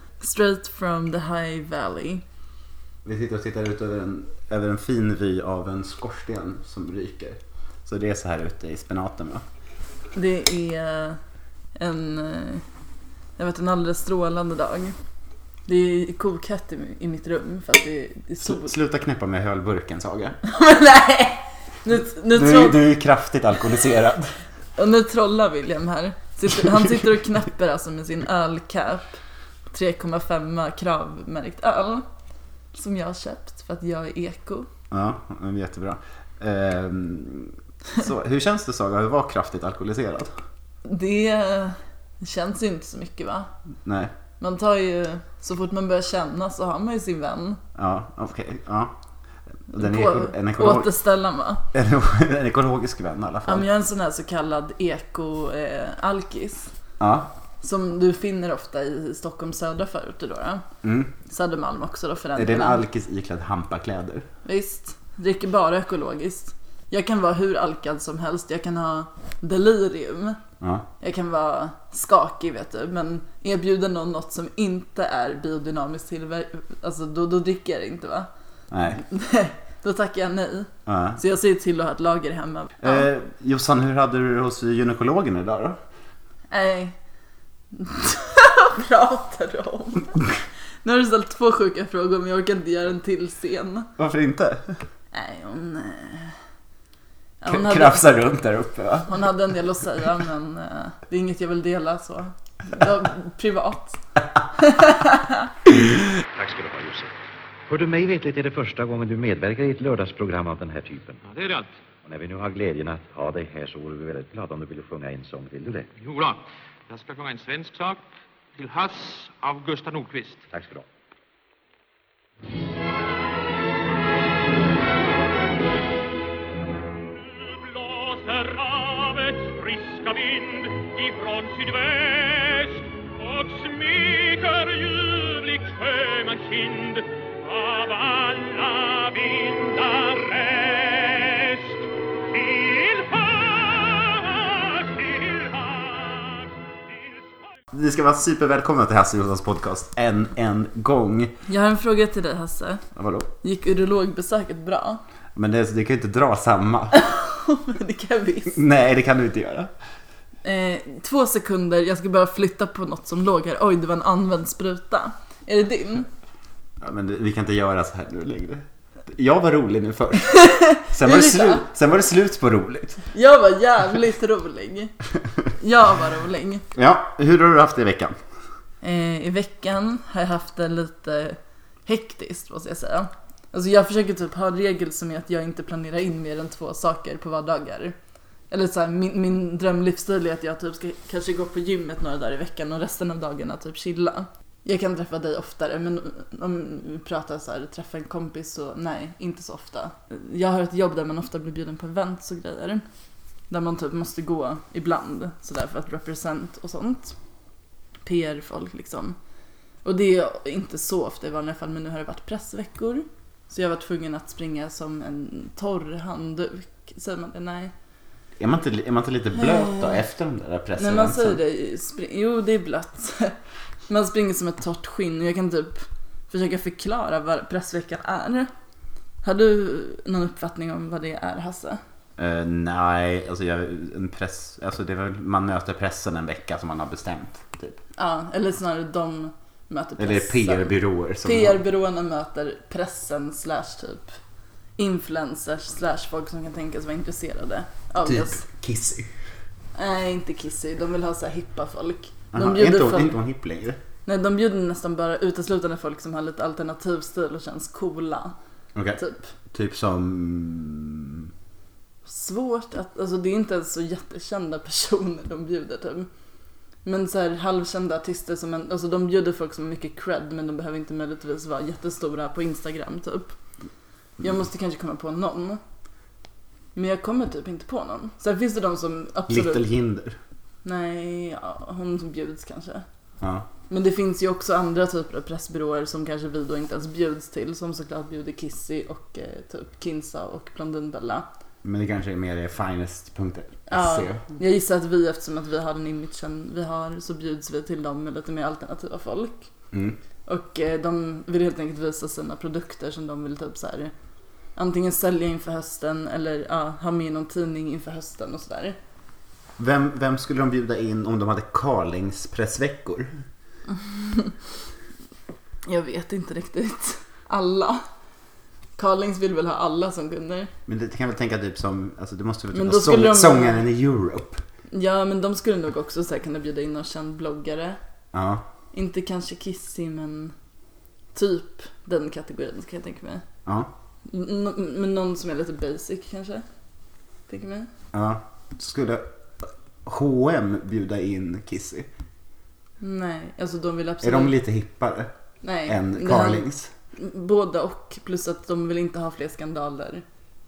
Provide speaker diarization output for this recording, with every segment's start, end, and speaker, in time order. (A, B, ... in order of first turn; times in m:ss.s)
0:00.2-0:02.2 A
0:03.0-0:09.4 B
0:10.1-0:11.2 A
0:11.8-0:12.6 A
0:13.4-0:15.0 A
0:15.7-0:18.7 A
0:18.4-0:20.4 B
0:20.4-0:22.8 A
0:22.3-0:24.4 B
0:24.8-0:29.2 A
0:29.7-0:32.1 A
0:32.7-0:34.7 A
0:34.9-0:40.4 B
0:40.8-0:43.5 A
0:43.8-0:44.1 B
0:44.4-0:47.6 A
0:47.8-0:49.0 B
0:49.7-0:50.9 B
0:49.7-0:51.6 A
0:51.7-0:53.6 B
0:53.4-0:56.7 A
0:57.0-0:57.3 B
0:57.6-1:00.6 A
1:00.8-1:01.1 B
1:01.2-1:02.8 A
1:02.4-1:04.3 B
1:04.4-1:10.4 A
1:10.6-1:10.9 B
1:11.0-1:18.3 A
1:18.7-1:19.0 B
1:18.9-1:23.1 A
1:20.9-1:21.2 B
1:22.8-1:25.8 B
1:26.5-1:27.0 A
1:27.7-1:30.2 A
1:30.8-1:33.9 A
1:34.0-1:34.8 B
1:35.1-1:36.4 A
1:37.4-1:38.1 A
1:37.5-1:39.3 B
1:39.1-1:44.0 A
1:44.5-1:45.5 A
1:46.4-1:47.1 C
1:47.7-1:51.2 C
1:51.3-1:51.7 D
1:52.0-1:56.0 C
1:56.0-1:58.0 D
1:58.6-2:00.4 D
2:00.5-2:00.8 C
2:07.1-2:27.6 E
2:27.7-2:31.3 B
2:31.5-2:32.8 A
2:33.0-2:33.3 B
2:33.4-2:35.0 A
2:35.4-2:37.0 B
2:36.9-2:38.6 A
2:38.5-2:39.7 B
2:40.4-2:46.1 A
2:46.8-2:53.1 B
2:50.3-2:51.6 A
2:53.1-2:54.9 A
2:55.5-2:56.6 A
2:56.8-2:58.2 B
2:58.8-3:08.0 A
3:08.5-3:22.8 A
3:23.5-3:27.2 A
3:28.0-3:29.2 A
3:29.8-3:37.7 A
3:38.4-3:41.4 B
3:39.4-3:40.0 A
3:40.8-3:43.4 A
3:43.9-3:48.5 A
3:49.2-3:51.8 A
3:52.2-3:57.8 B
3:58.0-4:04.2 A
4:00.0-4:01.6 B
4:04.8-4:08.4 A
4:08.0-4:09.1 B
4:09.8-4:13.2 A
4:12.3-4:13.8 B
4:14.1-4:18.4 A
4:18.8-4:19.0 B
4:19.0-4:19.3 A
4:19.5-4:21.3 B
4:22.0-4:26.1 A
4:26.8-4:33.3 A
4:34.2-4:35.6 A
4:36.8-4:39.6 A
4:39.3-4:40.2 B
4:40.6-4:42.8 A
4:43.2-4:43.5 B
4:43.7-4:51.3 A
4:51.6-4:54.2 B
4:53.7-4:59.5 A
4:59.7-5:00.0 B
5:00.3-5:03.9 A
5:04.6-5:08.8 A
5:09.6-5:13.1 B
5:13.8-5:14.3 A
5:15.7-5:17.8 A
5:18.8-5:20.5 A
5:20.7-5:24.4 B
5:22.5-5:23.6 A
5:24.7-5:27.8 A
5:28.1-5:28.4 B
5:28.7-5:30.4 A
5:31.2-5:33.2 A
5:34.1-5:36.4 A
5:37.3-5:37.7 A
5:37.9-5:41.9 B
5:42.8-5:44.4 A
5:44.0-5:45.1 B
5:45.4-5:50.0 A
5:45.7-5:46.7 B